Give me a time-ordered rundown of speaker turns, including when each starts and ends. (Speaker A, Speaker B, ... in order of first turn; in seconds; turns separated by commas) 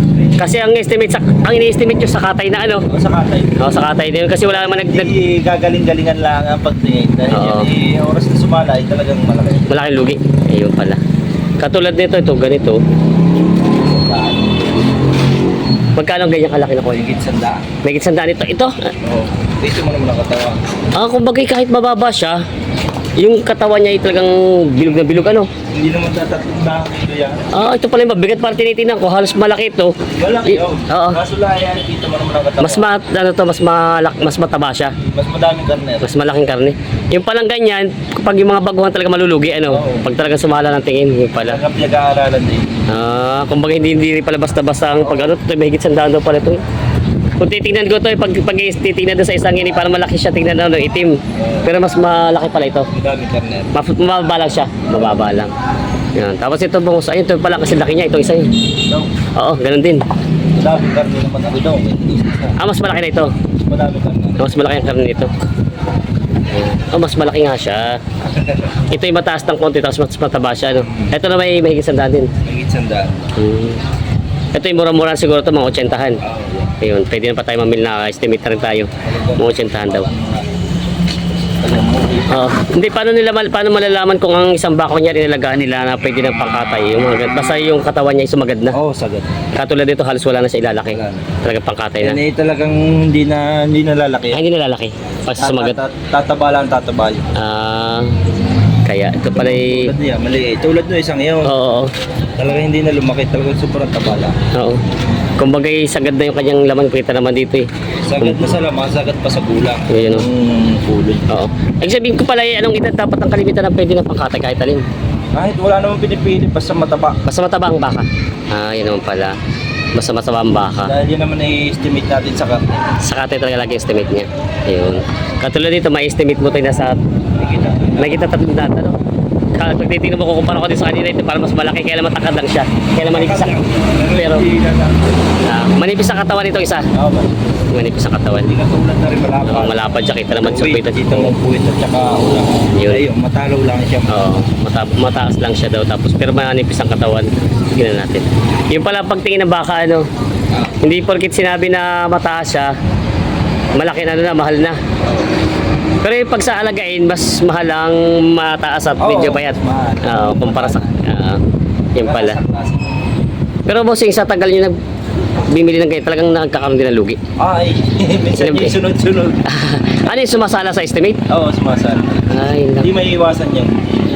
Speaker A: 0.4-2.9, Speaker B: 2.9-3.6, Speaker A: 3.6-5.1, Speaker B: 4.4-9.7, Speaker A: 7.3-7.7, Speaker A: 9.7-11.0, Speaker A: 11.6-12.8, Speaker B: 13.6-14.8, Speaker A: 15.9-17.1, Speaker B: 16.9-17.7, Speaker A: 17.8-18.9, Speaker B: 19.0-20.6, Speaker A: 20.9-22.4, Speaker A: 23.2-25.5, Speaker B: 25.7-27.5, Speaker A: 27.5-31.2, Speaker B: 30.2-32.9, Speaker A: 32.6-35.0, Speaker B: 35.0-36.1, Speaker A: 36.0-41.6, Speaker B: 39.7-40.1, Speaker B: 41.4-42.6, Speaker A: 42.9-46.6, Speaker B: 45.0-45.3, Speaker A: 47.4-52.9, Speaker B: 51.4-51.7, Speaker B: 52.9-53.7, Speaker A: 53.7-55.5, Speaker A: 56.1-58.5, Speaker A: 59.4-60.0, Speaker B: 60.5-62.6, Speaker A: 62.6-63.3, Speaker B: 63.6-64.7, Speaker A: 64.4-65.3, Speaker A: 66.6-68.0, Speaker B: 68.2-68.8, Speaker A: 68.9-72.3, Speaker B: 70.8-71.1, Speaker B: 72.4-73.3, Speaker A: 73.3-73.8, Speaker A: 74.5-76.2, Speaker B: 76.2-76.7, Speaker A: 76.8-80.1, Speaker B: 79.0-80.5, Speaker B: 81.6-82.4, Speaker A: 82.3-88.8, Speaker B: 88.7-89.3, Speaker A: 89.5-92.2, Speaker B: 90.9-91.3, Speaker B: 92.0-94.4, Speaker A: 94.3-95.8, Speaker B: 95.4-97.3, Speaker A: 97.3-98.2, Speaker A: 98.8-99.9, Speaker B: 99.2-101.5, Speaker A: 101.4-101.9, Speaker B: 102.4-104.4, Speaker A: 104.5-104.8, Speaker A: 105.4-107.7, Speaker B: 108.0-111.2, Speaker A: 108.2-108.6, Speaker A: 109.9-110.3, Speaker A: 111.3-114.8, Speaker B: 115.3-117.2, Speaker A: 117.2-119.3, Speaker A: 119.9-120.9, Speaker B: 120.8-122.9, Speaker A: 123.0-127.0, Speaker B: 127.3-128.2, Speaker A: 128.0-129.0, Speaker A: 129.5-134.5, Speaker B: 133.0-135.2, Speaker A: 135.4-136.9, Speaker B: 136.9-137.4, Speaker A: 137.7-138.5, Speaker B: 138.4-144.3, Speaker A: 139.4-141.3, Speaker A: 142.7-143.0, Speaker A: 144.1-150.1, Speaker A: 150.8-152.7, Speaker A: 153.8-154.8, Speaker B: 155.0-155.3, Speaker A: 156.0-161.4, Speaker B: 159.0-161.0, Speaker A: 161.9-162.4, Speaker B: 162.0-163.0, Speaker A: 163.7-164.7, Speaker A: 165.5-167.2, Speaker B: 167.4-169.4, Speaker A: 168.4-168.8, Speaker A: 169.5-171.2, Speaker B: 171.3-172.2, Speaker A: 172.3-172.9, Speaker B: 172.8-173.8